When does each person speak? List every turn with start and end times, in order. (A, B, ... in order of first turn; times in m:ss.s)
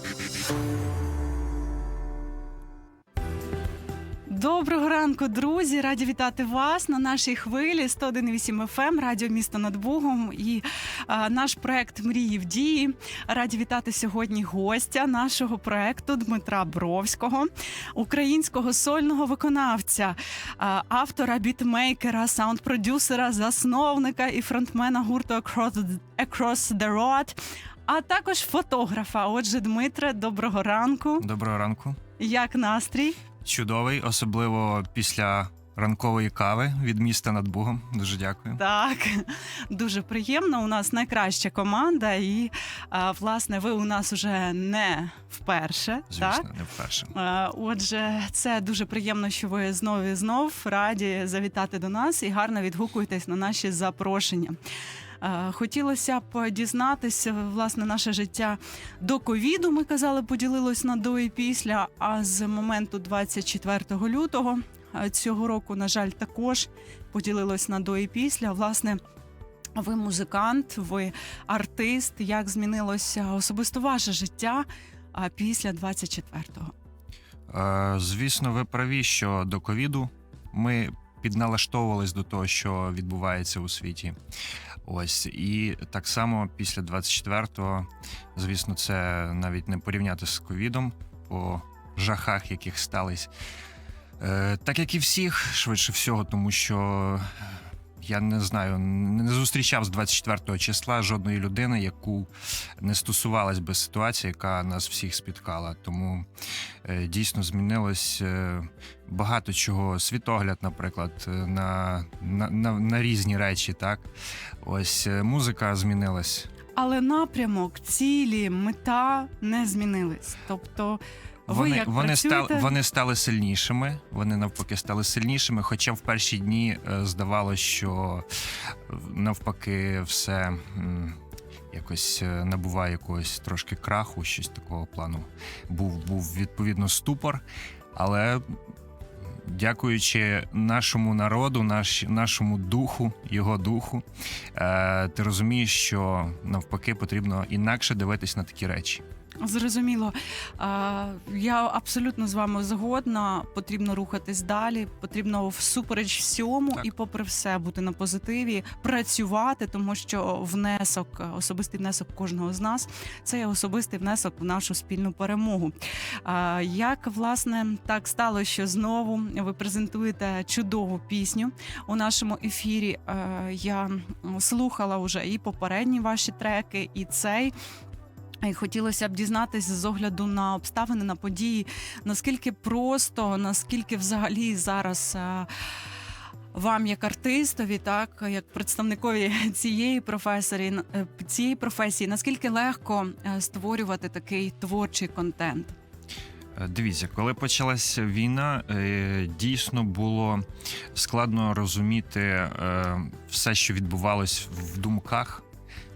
0:04.3-0:31.3 A
0:31.2-0:32.0 B
0:32.2-0:33.2 A
0:33.4-0:38.6 B
0:38.6-0:46.5 A
0:46.1-0:47.1 B
0:47.1-0:54.6 A
0:55.2-1:09.0 A
1:09.8-1:16.7 A
1:17.5-1:24.2 B
1:24.8-1:33.3 B
1:34.2-1:46.3 B
1:46.8-1:54.1 B
1:54.6-1:56.5 B
1:56.8-2:02.7 A
2:01.5-2:11.2 B
2:11.7-2:18.6 B
2:19.2-2:29.0 B
2:29.4-2:57.5 A
2:58.4-3:05.5 A
3:06.5-3:15.8 A
3:16.6-3:25.4 B